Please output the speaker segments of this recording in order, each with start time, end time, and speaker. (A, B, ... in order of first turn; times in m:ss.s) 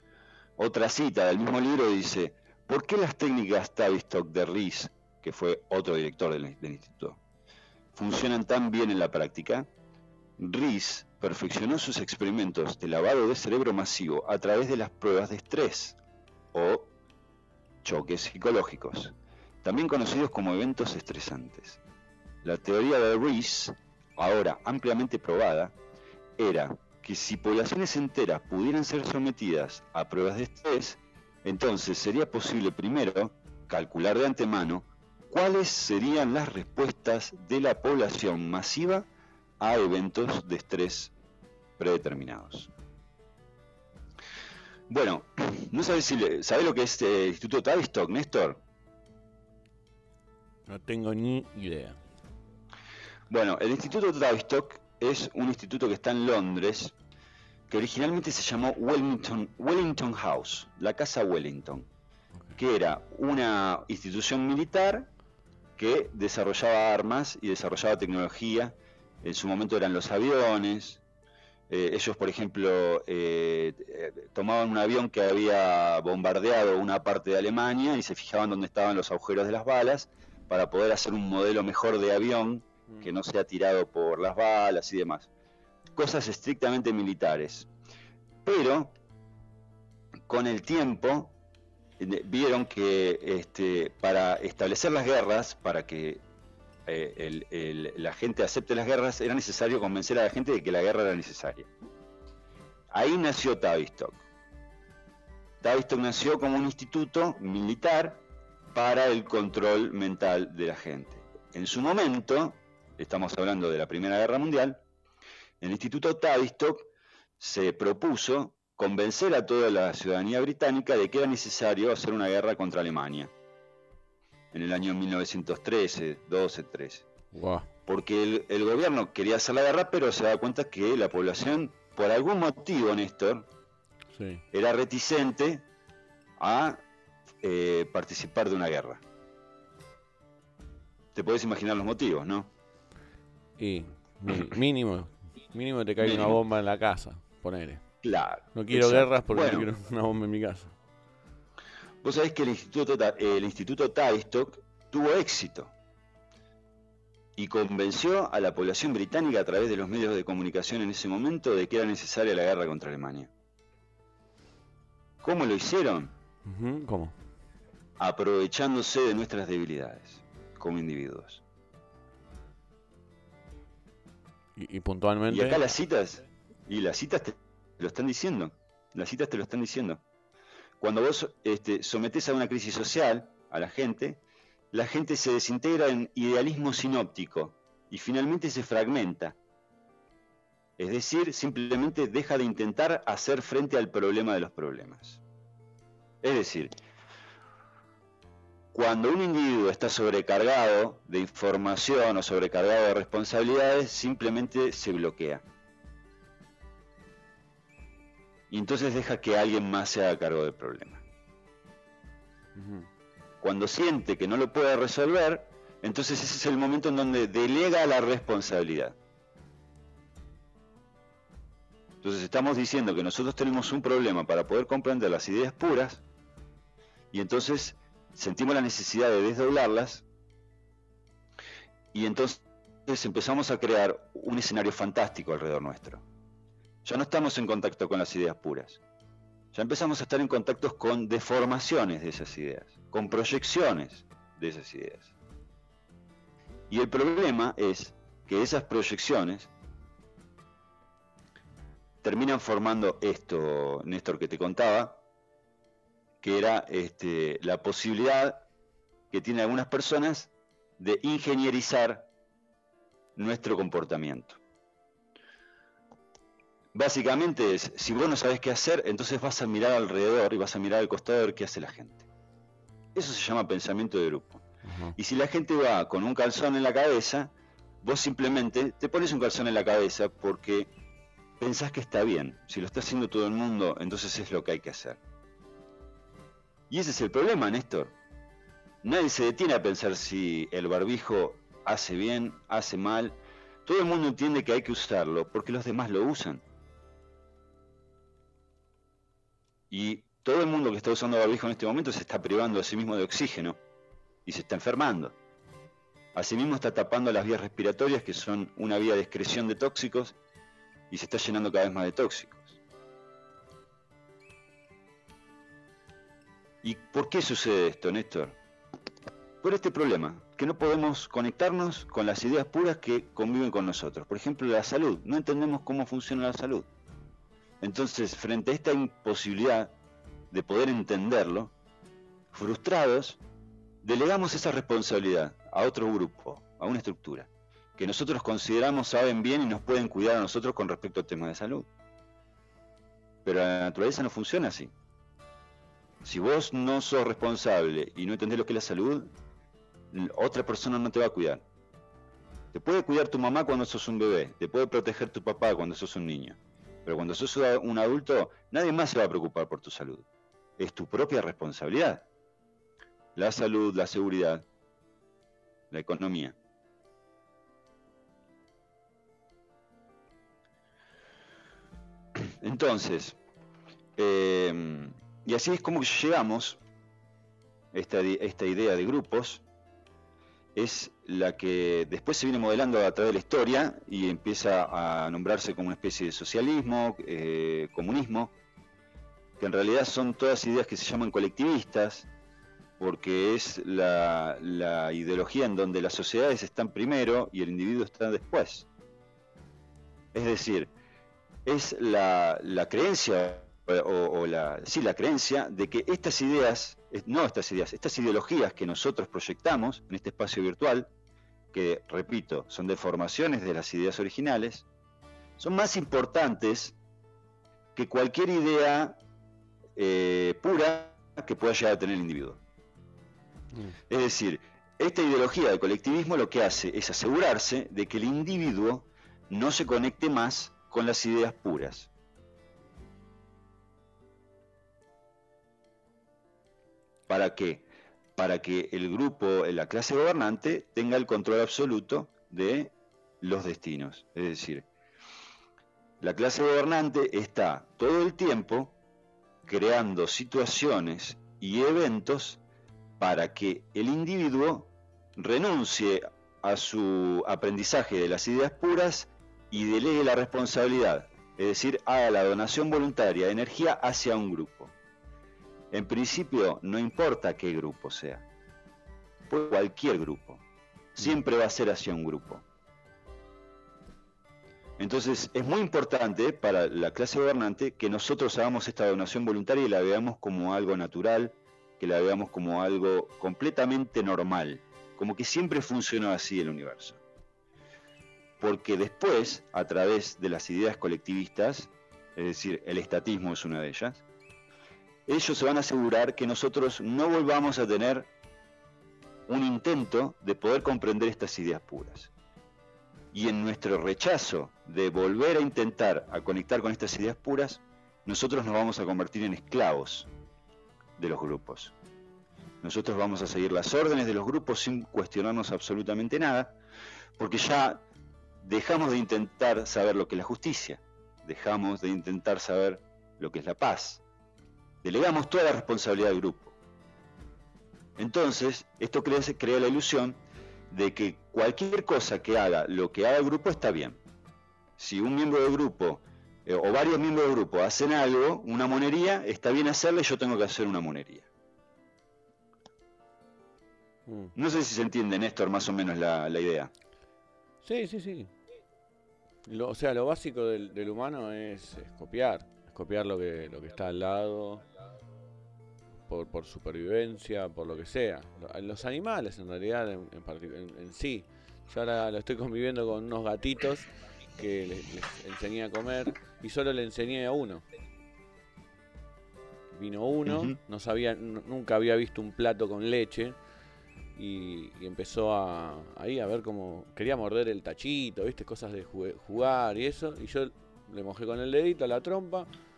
0:00.6-0:07.2 A
0:07.9-0:09.7 A
0:10.4-0:16.0 A
0:16.5-0:16.9 A
0:17.8-0:19.1 A
0:19.6-0:21.8 A
0:22.4-0:25.8 A
0:26.4-0:39.1 A
0:39.6-0:41.1 A
0:41.8-0:42.7 A
0:44.9-0:48.6 A
0:50.6-0:52.0 B
0:53.3-0:56.9 A
0:57.7-1:01.9 A
1:02.6-1:05.1 A
1:05.8-1:11.0 A
1:11.7-1:25.3 A
1:26.0-1:27.7 A
1:28.4-1:29.0 A
1:30.3-1:31.4 A
1:32.0-1:36.2 A
1:36.9-1:41.7 A
1:42.9-1:44.2 A
1:45.6-1:48.2 A
1:48.7-1:54.8 A
1:55.6-2:03.3 A
2:04.5-2:07.1 A
2:07.3-2:07.7 B
2:07.9-2:13.5 A
2:14.1-2:14.4 B
2:14.5-2:15.6 A
2:16.4-2:16.8 A
2:17.4-2:19.0 A
2:21.1-2:22.5 A
2:23.6-2:27.8 B
2:26.0-2:26.4 A
2:28.0-2:29.7 A
2:28.5-2:30.7 B
2:32.0-2:35.7 A
2:37.4-2:43.3 A
2:45.2-2:46.1 A
2:46.4-2:47.1 B
2:48.0-2:51.4 A
2:54.6-2:55.6 B
2:55.3-3:00.0 A
3:00.8-3:04.2 A
3:04.7-3:09.4 A
3:10.8-3:15.2 A
3:16.2-3:16.7 A
3:18.7-3:25.4 A
3:28.5-3:31.0 A
3:32.5-3:32.9 B
3:33.4-3:39.0 A
3:42.0-3:46.0 A
3:47.1-3:50.0 A
3:51.9-3:56.0 A
3:56.8-3:58.8 A
3:59.5-4:05.1 A
4:06.7-4:09.5 A
4:12.0-4:15.0 A
4:16.2-4:18.4 A
4:19.1-4:22.1 A
4:23.2-4:24.4 A
4:26.7-4:32.0 A
4:33.0-4:34.4 A
4:34.6-4:35.0 B
4:35.0-4:40.7 A
4:41.4-4:45.0 A
4:46.7-4:48.0 A
4:48.8-4:56.4 A
4:59.7-5:03.6 A
5:04.2-5:05.2 A
5:06.1-5:10.2 A
5:10.9-5:12.6 A
5:16.6-5:18.4 A
5:19.4-5:26.7 A
5:27.6-5:29.7 A
5:30.3-5:31.5 A
5:32.3-5:33.2 A
5:33.8-5:41.7 A
5:43.2-5:44.7 A
5:46.0-5:49.1 A
5:49.9-5:51.4 A
5:52.5-6:00.0 A
6:00.6-6:02.0 A
6:03.2-6:04.4 A
6:05.7-6:06.4 A
6:12.3-6:13.2 A
6:14.0-6:16.6 A
6:17.7-6:19.4 A
6:20.5-6:28.3 A
6:29.4-6:32.1 A
6:32.8-6:38.7 A
6:40.1-6:40.7 A
6:41.5-6:50.9 A
6:51.5-6:54.6 A
6:55.4-6:56.8 A
6:57.8-6:59.0 A
6:59.8-7:02.4 A
7:03.9-7:11.9 A
7:17.1-7:24.6 A
7:26.0-7:28.8 A
7:29.5-7:32.4 A
7:33.0-7:44.7 A
7:45.7-7:48.2 A
7:49.3-7:50.4 A
7:51.0-7:52.4 A
7:54.8-8:07.0 A
8:08.4-8:14.0 A
8:15.1-8:18.1 A
8:19.3-8:22.1 A
8:23.1-8:30.1 A
8:31.0-8:31.7 A
8:32.6-8:36.6 A
8:37.2-8:37.8 A
8:38.4-8:44.0 A
8:44.8-8:46.6 A
8:48.0-8:50.2 A
8:50.7-8:54.0 A
8:54.8-9:01.3 A
9:04.1-9:04.3 B
9:04.3-9:06.7 A
9:07.6-9:08.3 B
9:09.4-9:14.6 B
9:16.1-9:27.6 B
9:29.7-9:33.4 B
9:30.3-9:30.6 A
9:34.2-9:42.5 B